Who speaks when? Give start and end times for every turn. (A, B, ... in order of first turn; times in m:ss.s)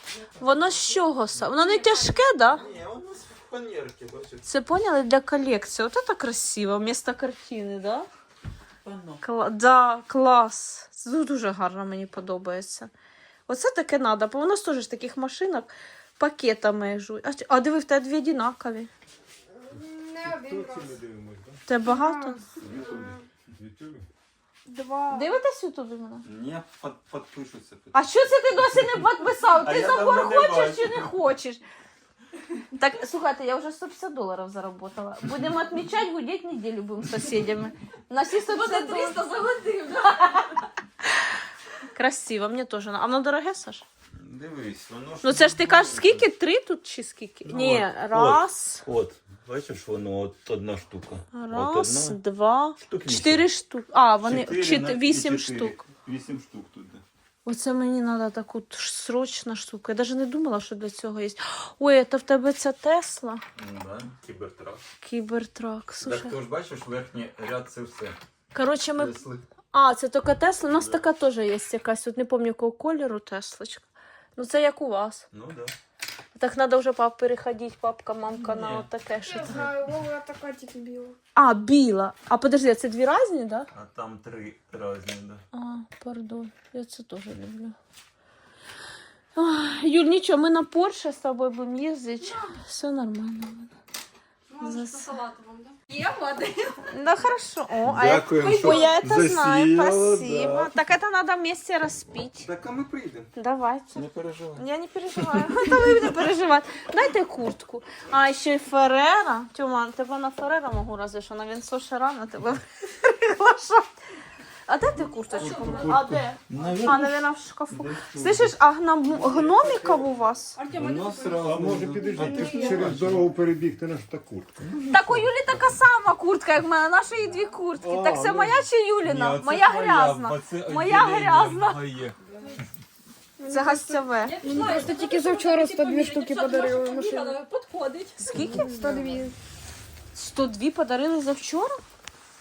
0:00.4-0:02.6 A
0:01.6-0:02.1 B
0:02.5-0:04.4 C
0:04.4-0:08.1 A
0:08.8-0:09.2 C
0:09.2-0:12.9 A
0:13.5-0:18.9 A
0:19.6-0:24.0 D
0:20.3-0:21.0 E
0:21.7-0:22.4 A
0:22.6-0:23.2 C
0:24.7-0:25.2 D
0:25.1-0:26.2 A
0:26.2-0:28.0 C
0:27.9-0:31.6 A
0:29.4-0:31.1 C
0:32.7-0:39.3 A
0:38.4-0:40.6 B
0:40.0-0:40.4 A
0:41.0-0:41.3 A
0:41.9-0:43.8 A
0:44.2-0:46.3 C
0:45.2-0:48.8 A
0:47.4-0:52.2 C
0:51.3-0:55.8 A
0:52.8-0:53.4 C
0:54.2-0:57.0 C
0:57.4-1:03.4 A
1:03.6-1:04.8 C
1:05.0-1:06.3 A
1:06.0-1:08.2 C
1:08.5-1:09.1 A
1:08.9-1:09.4 C
1:09.7-1:15.2 A
1:10.7-1:11.0 C
1:15.3-1:15.7 C
1:16.4-1:19.7 A
1:18.4-1:19.7 C
1:19.2-1:21.2 D
1:21.4-1:23.7 A
1:23.7-1:25.4 C
1:25.5-1:27.7 A
1:29.4-1:33.7 A
1:32.2-1:32.6 B
1:34.5-1:36.9 B
1:34.6-1:35.1 A
1:36.9-1:42.5 A
1:37.8-1:40.7 C
1:38.4-1:39.0 B
1:42.4-1:43.3 C
1:43.4-1:44.0 A
1:43.9-1:46.1 C
1:44.6-1:53.9 A
1:54.7-2:00.6 A
1:55.0-1:58.6 C
1:55.3-1:56.0 B
1:56.5-1:56.8 B
1:59.1-2:00.1 C
2:00.5-2:03.0 B
2:00.7-2:03.3 C
2:01.4-2:04.5 E
2:02.2-2:02.7 D
2:02.2-2:02.9 A
2:04.6-2:05.7 C
2:04.7-2:11.8 A
2:07.8-2:12.2 C
2:13.4-2:14.9 A
2:13.4-2:17.4 D
2:14.2-2:19.2 B
2:18.2-2:19.1 A
2:18.3-2:19.3 D
2:20.1-2:21.7 A